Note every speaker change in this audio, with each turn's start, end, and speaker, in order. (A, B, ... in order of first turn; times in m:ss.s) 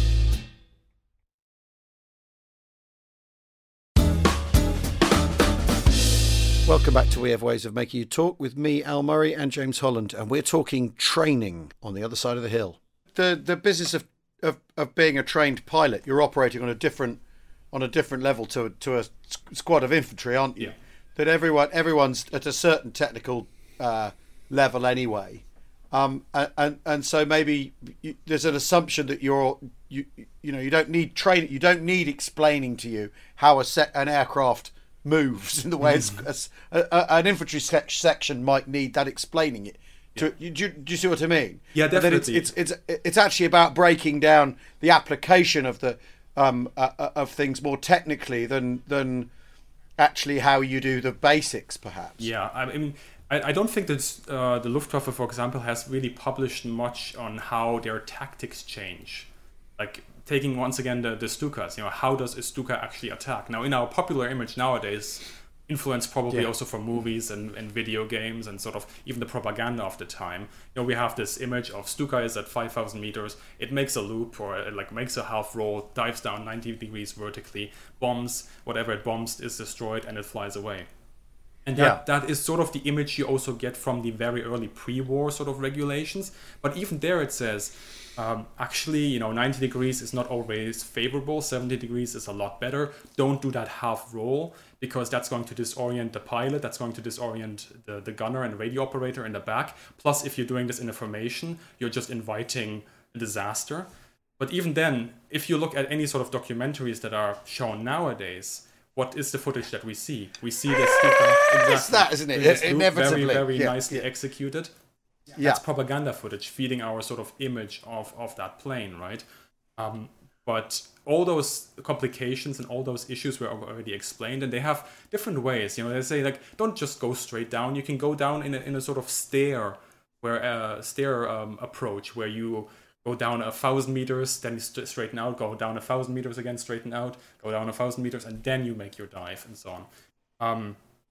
0:06.7-0:17.2 A
0:17.7-0:49.3 A
0:35.8-0:36.2 B
0:41.7-0:42.5 B
0:50.0-0:52.3 A
0:52.2-1:20.9 B
1:21.7-1:43.9 B
1:44.4-1:54.7 B
1:51.6-1:54.0 A
1:55.3-1:59.2 B
1:55.4-1:55.6 A
1:59.8-2:19.9 B
2:20.4-2:20.8 B